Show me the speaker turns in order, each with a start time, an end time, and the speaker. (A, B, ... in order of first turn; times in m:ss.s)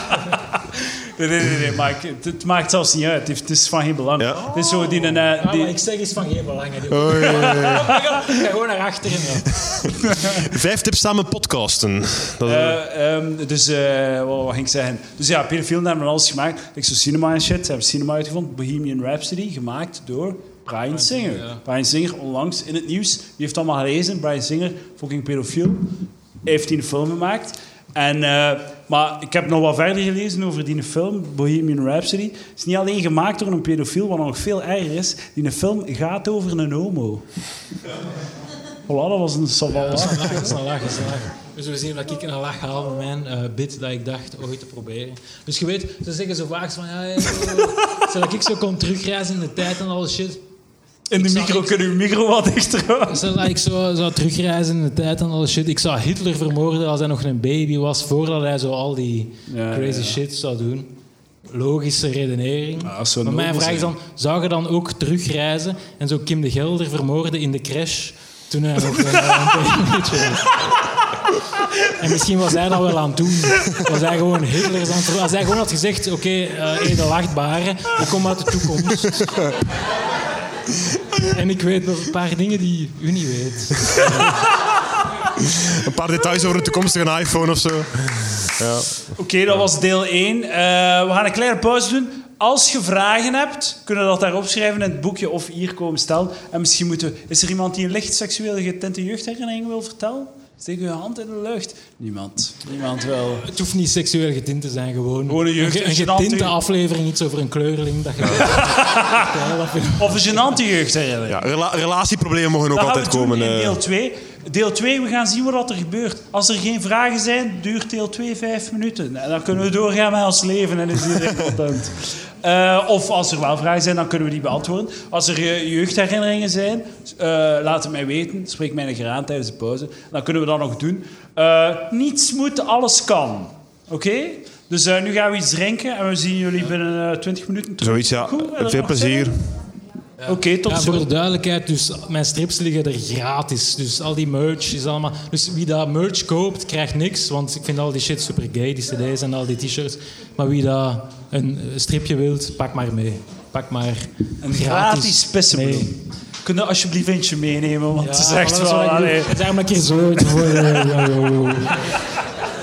0:01.2-0:05.7 A
0:04.3-0:09.9 B
0:06.9-0:07.9 C
0:07.5-0:08.0 A
0:09.6-0:12.8 C
0:12.4-0:37.2 A
0:20.9-0:21.6 B
0:38.8-0:40.6 A
0:39.8-0:50.4 B
0:51.1-0:53.3 A
0:51.1-0:51.8 B
0:53.1-1:00.9 B
0:59.5-1:00.2 A
1:01.5-1:10.9 B
1:02.8-1:03.9 A
1:11.8-1:19.5 B
1:19.2-1:19.5 C
1:21.2-1:24.4 B
1:25.4-1:29.1 C
1:29.1-1:43.4 A
1:43.4-1:50.4 B
1:45.3-1:46.6 A
1:48.4-1:49.3 A
1:50.0-1:51.4 A
1:51.3-1:53.8 C
1:52.7-2:19.3 A
2:17.8-2:19.4 C
2:20.2-2:35.9 B
2:20.2-2:21.1 A
2:34.4-2:39.5 A
2:38.0-2:41.9 B